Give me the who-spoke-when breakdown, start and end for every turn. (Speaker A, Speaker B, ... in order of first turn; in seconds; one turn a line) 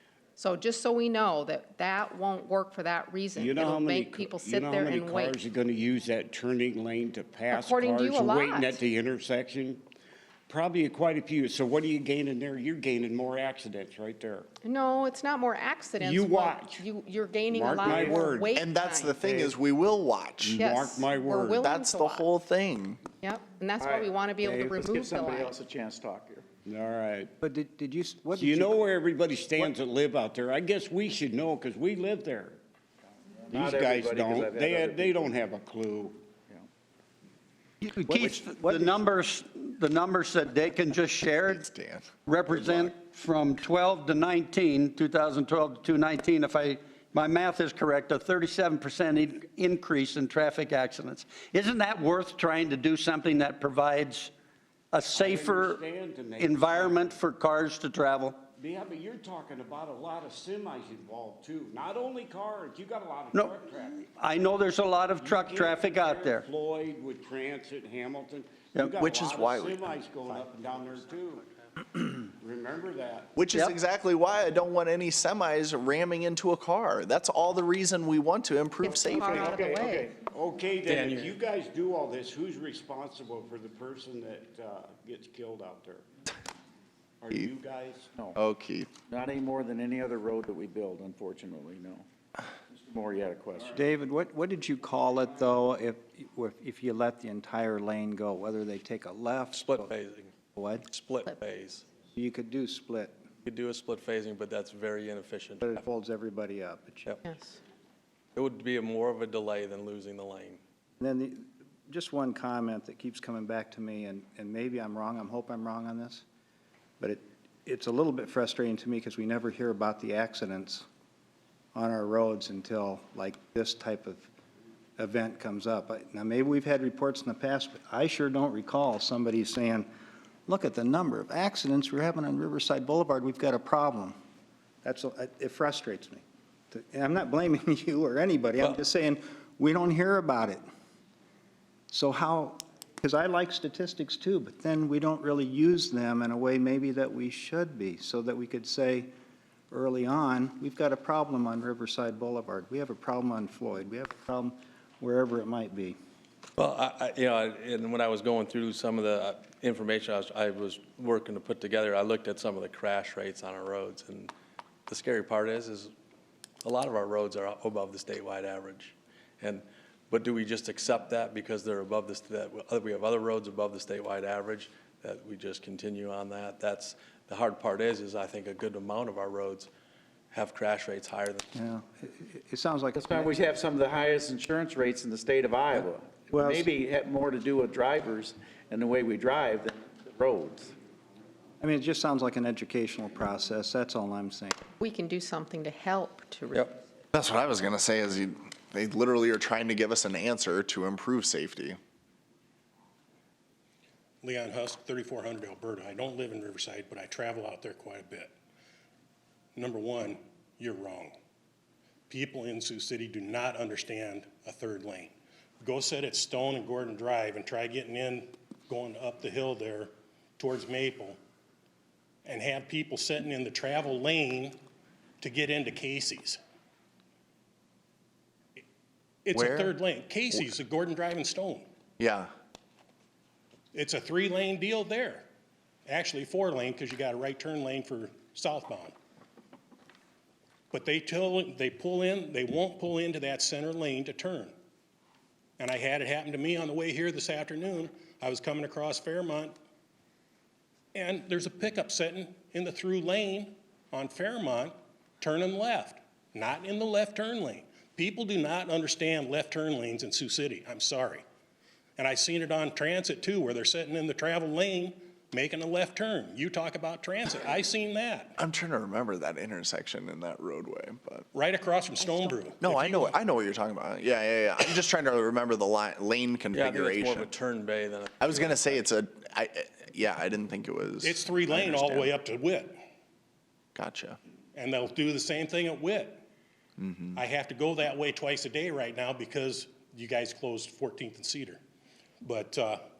Speaker A: 0.4-5.4
Speaker B: 3.4-9.8
Speaker A: 7.5-8.8
Speaker B: 10.5-14.5
Speaker A: 14.6-19.2
Speaker B: 16.0-16.9
Speaker B: 17.5-18.5
Speaker C: 18.5-20.6
Speaker B: 19.2-19.6
Speaker B: 20.4-21.6
Speaker A: 20.6-22.3
Speaker C: 21.6-23.0
Speaker A: 23.2-25.5
Speaker D: 23.8-26.4
Speaker B: 26.6-27.3
Speaker E: 27.4-28.8
Speaker B: 28.4-32.6
Speaker B: 33.5-36.2
Speaker D: 33.5-35.4
Speaker F: 37.8-41.7
Speaker E: 38.1-38.9
Speaker C: 41.4-42.9
Speaker F: 42.2-54.3
Speaker F: 54.9-55.8
Speaker B: 55.1-57.2
Speaker F: 56.4-58.5
Speaker B: 58.6-64.0
Speaker F: 63.3-66.5
Speaker B: 65.2-73.3
Speaker F: 68.7-69.1
Speaker C: 69.0-69.9
Speaker C: 73.3-79.7
Speaker F: 73.4-73.8
Speaker A: 78.8-80.1
Speaker B: 79.2-86.0
Speaker D: 79.9-80.2
Speaker G: 80.8-81.3
Speaker B: 87.2-88.2
Speaker C: 88.3-89.0
Speaker D: 89.0-92.0
Speaker D: 92.8-93.7
Speaker E: 93.7-99.9
Speaker G: 99.5-100.3
Speaker E: 100.5-100.8
Speaker G: 100.9-101.8
Speaker E: 102.1-103.2
Speaker G: 103.4-105.8
Speaker E: 105.6-107.2
Speaker A: 107.2-107.6
Speaker G: 108.3-110.6
Speaker E: 111.0-116.2
Speaker E: 117.0-120.8
Speaker E: 121.7-124.3
Speaker E: 125.0-129.9
Speaker E: 130.5-134.1
Speaker E: 134.8-140.6
Speaker E: 141.9-149.1
Speaker E: 149.7-155.9
Speaker G: 156.6-164.3
Speaker G: 164.9-165.9
Speaker G: 166.6-179.7
Speaker G: 180.3-181.5
Speaker E: 181.5-183.3
Speaker D: 182.9-190.7
Speaker E: 186.3-186.7
Speaker E: 191.6-194.6
Speaker A: 194.8-196.8
Speaker C: 197.1-201.8
Speaker H: 204.2-208.3
Speaker H: 209.6-211.2
Speaker H: 212.1-221.2
Speaker H: 222.2-224.6
Speaker H: 225.2-226.4
Speaker H: 229.2-231.7
Speaker C: 229.3-229.7
Speaker C: 232.0-232.3
Speaker H: 233.7-235.2
Speaker H: 235.8-238.9
Speaker H: 240.7-244.5
Speaker H: 245.6-249.5
Speaker H: 250.9-261.2
Speaker H: 262.0-268.3
Speaker C: 268.4-271.3
Speaker H: 271.3-273.1
Speaker C: 272.6-277.3
Speaker G: 276.5-278.9
Speaker C: 278.2-282.1
Speaker H: 281.0-282.7
Speaker C: 283.8-284.2
Speaker H: 284.5-286.2
Speaker C: 286.8-287.1
Speaker H: 287.1-291.6
Speaker H: 292.2-292.8